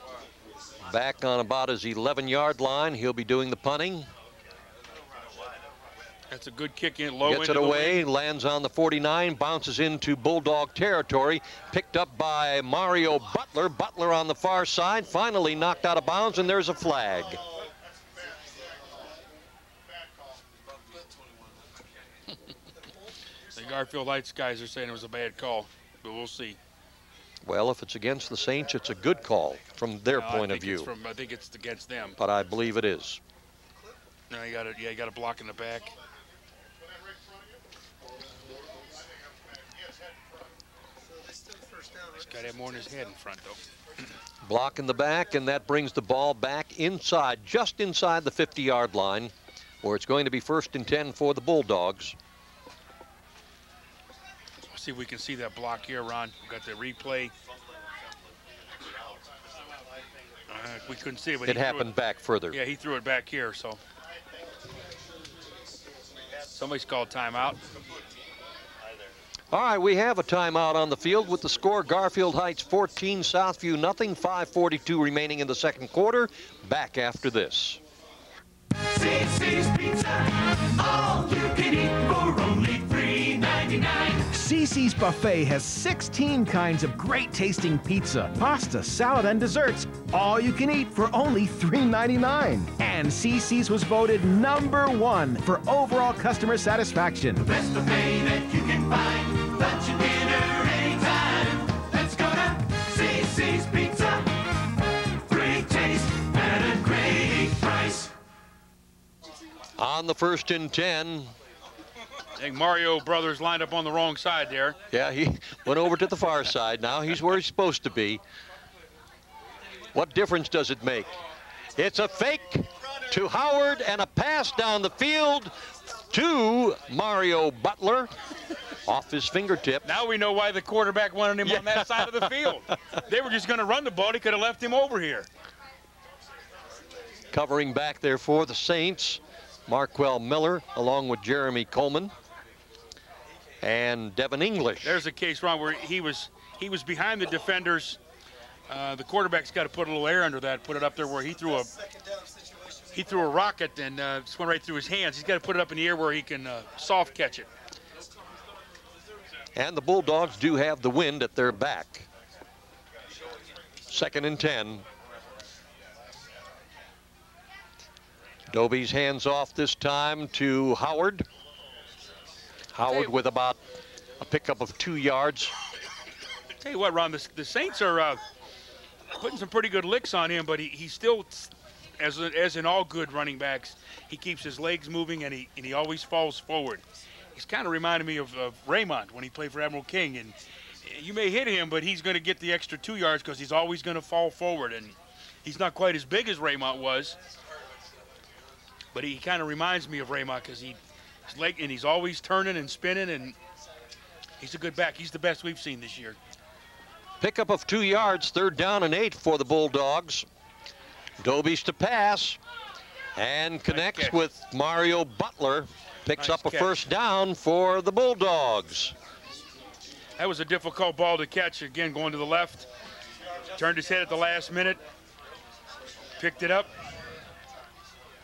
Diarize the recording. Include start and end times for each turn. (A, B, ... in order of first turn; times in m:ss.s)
0:00.8-0:04.1 A
0:06.3-0:08.0 B
0:07.2-0:17.4 A
0:23.6-0:26.6 B
0:27.4-0:30.9 A
0:30.1-0:32.2 B
0:32.2-0:33.2 A
0:34.3-0:35.9 B
0:42.2-0:43.6 B
0:44.4-0:52.2 A
0:54.7-0:57.3 B
1:00.5-1:01.9 B
1:01.4-1:02.6 A
1:02.5-1:03.8 B
1:06.5-1:07.6 B
1:09.5-1:17.8 A
1:18.8-1:24.3 C
1:24.3-1:37.4 D
1:37.4-1:44.2 C
1:45.3-1:48.1 C
1:49.8-1:51.3 A
1:52.4-1:54.8 B
1:54.9-1:58.2 A
1:59.9-2:01.1 A
2:01.8-2:08.1 A
2:08.9-2:09.8 A
2:09.8-2:15.3 B
2:11.4-2:12.6 A
2:17.3-2:22.1 A
2:23.6-2:25.0 A
2:24.8-2:28.0 B
2:28.7-2:31.7 B
2:32.9-2:37.5 B
2:39.5-2:42.1 A
2:43.9-2:44.8 A
2:48.5-2:51.2 A
2:52.7-2:53.6 A
2:54.2-2:55.5 A
2:56.6-2:58.2 B
2:59.2-3:06.8 B
3:07.4-3:17.2 B
3:18.9-3:23.4 B
3:24.4-3:26.2 B
3:27.2-3:30.3 A
3:31.2-3:32.4 A
3:33.2-3:38.9 A
3:33.7-3:34.2 B
3:36.2-3:36.8 B
3:40.2-3:42.7 B
3:43.6-3:44.8 B
3:46.2-3:46.7 B